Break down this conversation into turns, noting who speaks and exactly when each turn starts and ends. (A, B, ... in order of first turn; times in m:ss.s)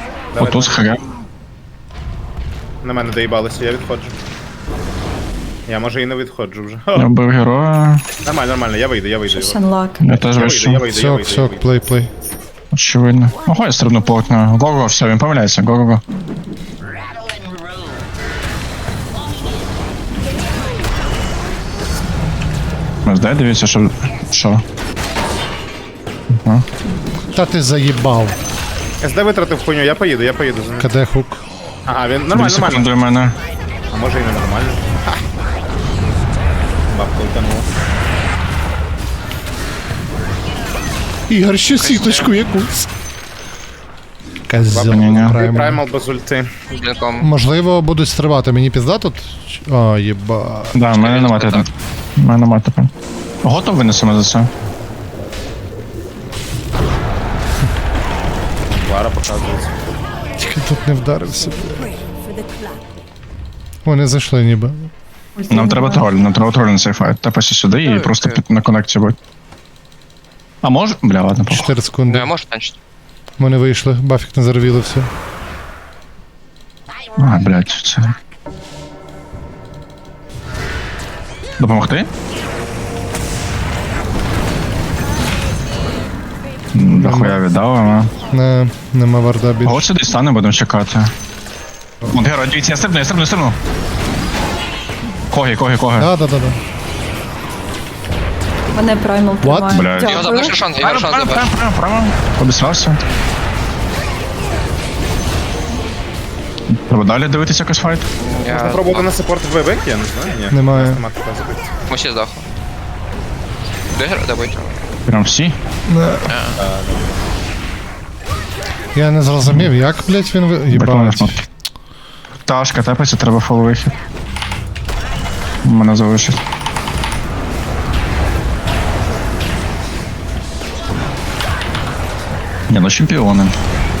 0:00.3-0:00.9 A
0:00.4-0:01.0 B
0:02.8-0:04.1 A
0:05.7-0:07.1 A
0:06.9-0:08.0 B
0:08.2-0:11.6 A
0:09.3-0:10.1 C
0:10.0-0:10.8 B
0:10.9-0:12.1 D
0:12.7-0:16.0 B
0:23.0-0:24.6 B
0:27.3-0:28.4 D
0:29.0-0:30.9 A
0:30.8-0:31.4 D
0:31.8-0:32.9 A
0:32.3-0:33.4 B
0:33.9-0:35.2 A
0:36.9-0:37.7 A
0:41.3-0:42.9 D
0:41.7-0:42.3 E
0:44.5-0:45.8 D
0:44.7-0:46.5 A
0:44.9-0:45.3 B
0:46.7-0:47.3 E
0:47.2-0:50.8 D
0:50.8-0:51.6 B
0:50.9-0:51.7 E
0:52.2-0:52.9 B
0:53.4-0:54.5 B
0:58.8-0:59.7 A
1:00.4-1:01.9 D
1:03.8-1:04.9 D
1:05.4-1:06.0 C
1:05.5-1:09.2 B
1:07.7-1:08.4 E
1:10.6-1:11.6 B
1:11.5-1:12.3 D
1:12.1-1:12.8 E
1:13.4-1:15.1 D
1:17.2-1:18.1 B
1:21.6-1:22.1 B
1:26.7-1:28.1 B
1:26.8-1:27.4 D
1:28.3-1:29.9 D
1:29.6-1:31.1 B
1:32.1-1:33.6 B
1:35.3-1:36.0 B
1:36.0-1:36.6 D
1:38.7-1:40.6 C
1:39.4-1:39.8 D
1:39.7-1:40.0 B
1:40.0-1:41.5 E
1:40.8-1:43.0 B
1:46.7-1:48.1 B
1:48.2-1:49.1 E
1:48.5-1:51.7 A
1:50.5-1:51.0 D
1:51.9-1:52.4 E
1:53.9-1:54.7 E
1:55.1-1:55.6 B
1:55.9-1:56.3 D
1:56.2-1:56.6 E
1:56.6-1:57.2 A
1:58.9-2:01.4 D
2:00.7-2:01.4 B
2:02.4-2:03.9 B
2:05.6-2:06.4 B
2:12.7-2:13.5 B